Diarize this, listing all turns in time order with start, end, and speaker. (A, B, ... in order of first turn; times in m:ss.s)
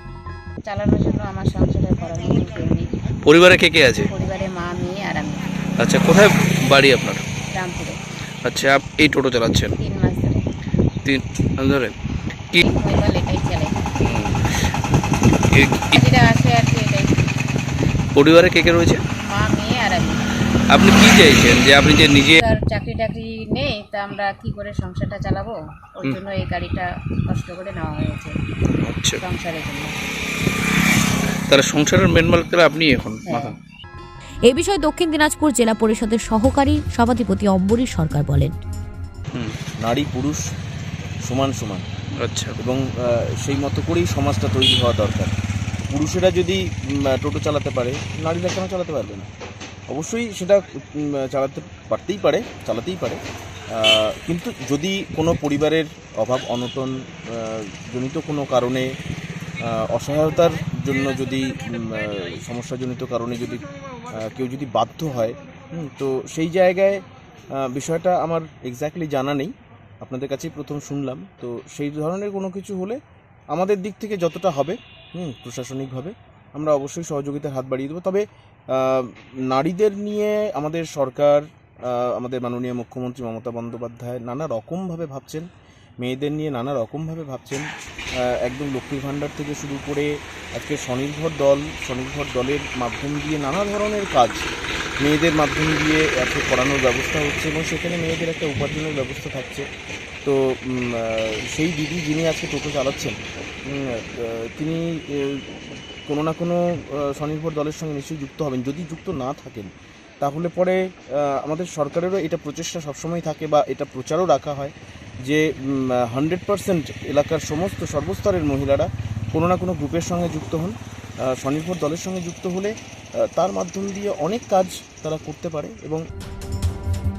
0:00.6-0:02.9 A
0:03.2-0:04.1 B
0:04.1-0:05.6 A
0:05.8-0:07.2 B
0:07.5-0:08.0 A
0:08.4-0:09.7 B
0:09.8-0:10.4 A
0:11.0-0:11.9 B
0:12.6-0:13.8 A
0:14.0-0:14.7 B
0:15.5-0:16.0 B
0:15.9-0:17.3 A
0:18.1-0:19.0 B
0:19.2-0:20.2 A
0:20.7-0:22.4 B
0:22.4-0:28.4 A
0:28.8-0:29.2 B
0:29.2-0:29.9 A
0:31.5-0:33.6 B
0:33.2-0:33.5 A
0:34.5-0:38.5 C
0:39.8-0:40.4 D
0:41.2-0:41.8 D
0:42.2-0:42.6 B
0:42.6-0:45.3 D
0:45.9-0:49.3 D
0:49.9-0:58.9 D
0:59.6-1:13.0 D
1:13.5-1:25.4 D
1:26.0-1:34.5 D
1:35.0-1:39.7 D
1:40.2-1:45.5 D
1:46.1-1:49.7 D
1:50.2-1:54.7 D
1:55.2-2:00.7 D
2:01.3-2:02.7 D
2:03.3-2:06.0 D